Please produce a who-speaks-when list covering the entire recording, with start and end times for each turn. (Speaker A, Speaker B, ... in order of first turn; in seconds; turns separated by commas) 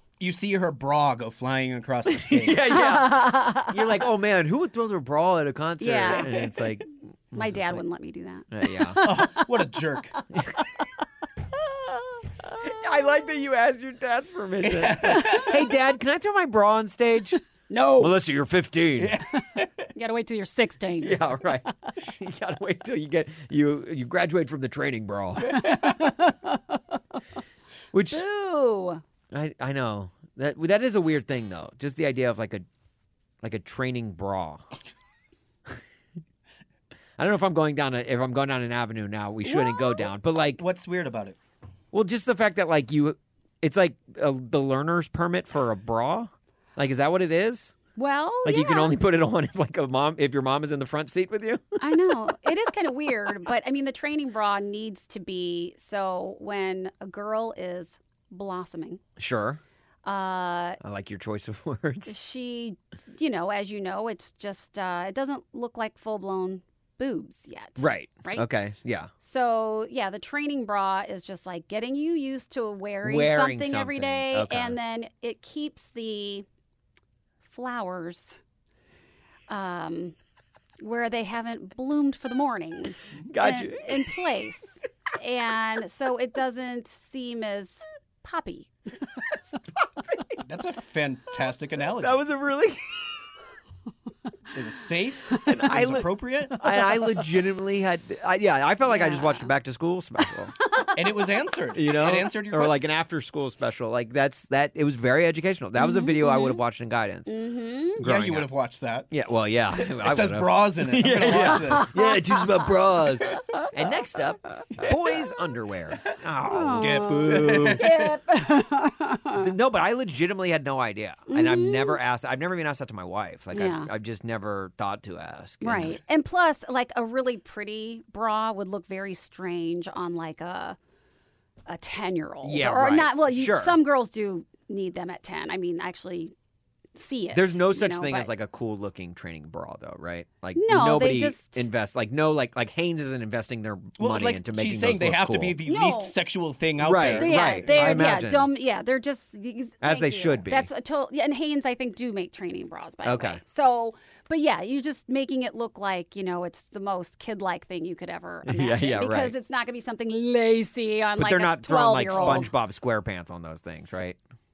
Speaker A: 0.2-2.8, Speaker B: 2.1-7.8, Speaker C: 2.7-4.0, Speaker C: 5.8-6.4, Speaker C: 7.3-9.5, Speaker B: 8.5-9.3, Speaker A: 9.0-10.2, Speaker C: 11.6-12.7, Speaker B: 12.6-17.4, Speaker A: 14.6-15.6, Speaker C: 17.7-18.1, Speaker B: 18.0-19.2, Speaker A: 19.0-19.7, Speaker C: 19.9-21.4, Speaker B: 21.0-25.7, Speaker A: 25.5-25.9, Speaker C: 25.6-27.0, Speaker B: 27.9-28.2, Speaker C: 28.1-29.0, Speaker B: 29.3-32.7, Speaker B: 33.4-34.6, Speaker B: 37.2-40.6, Speaker C: 39.5-40.1, Speaker A: 40.6-41.4, Speaker B: 41.9-47.8, Speaker C: 48.0-48.9, Speaker B: 48.5-52.1, Speaker C: 51.8-59.0, Speaker B: 59.2-59.6, Speaker C: 60.0-60.8, Speaker B: 60.8-62.1, Speaker C: 62.1-68.5, Speaker B: 67.8-69.1, Speaker C: 69.2-76.5, Speaker B: 73.0-74.8, Speaker C: 77.5-78.4, Speaker C: 79.5-80.1, Speaker C: 80.8-88.7, Speaker B: 83.3-84.2, Speaker A: 90.4-92.2, Speaker B: 92.0-93.1, Speaker A: 94.5-96.6, Speaker B: 95.4-100.5, Speaker C: 98.9-99.5, Speaker A: 101.0-102.8, Speaker B: 101.7-107.3, Speaker C: 105.8-106.6, Speaker C: 107.3-108.0, Speaker B: 108.0-108.5, Speaker A: 108.0-109.1, Speaker B: 109.1-117.9, Speaker A: 109.9-112.0, Speaker C: 111.8-112.5, Speaker C: 116.5-119.5, Speaker A: 116.6-118.1, Speaker B: 119.4-126.0, Speaker C: 121.3-122.0, Speaker C: 123.5-123.9, Speaker C: 125.6-130.8, Speaker C: 131.7-136.3, Speaker B: 132.4-133.8, Speaker C: 136.9-138.3, Speaker B: 137.3-145.6, Speaker C: 140.6-141.7, Speaker A: 144.0-148.1, Speaker C: 145.7-146.1, Speaker B: 146.8-148.5, Speaker C: 147.2-162.5, Speaker B: 149.8-150.7, Speaker B: 153.1-153.4, Speaker B: 158.5-159.3, Speaker B: 161.2-164.2, Speaker A: 162.1-162.5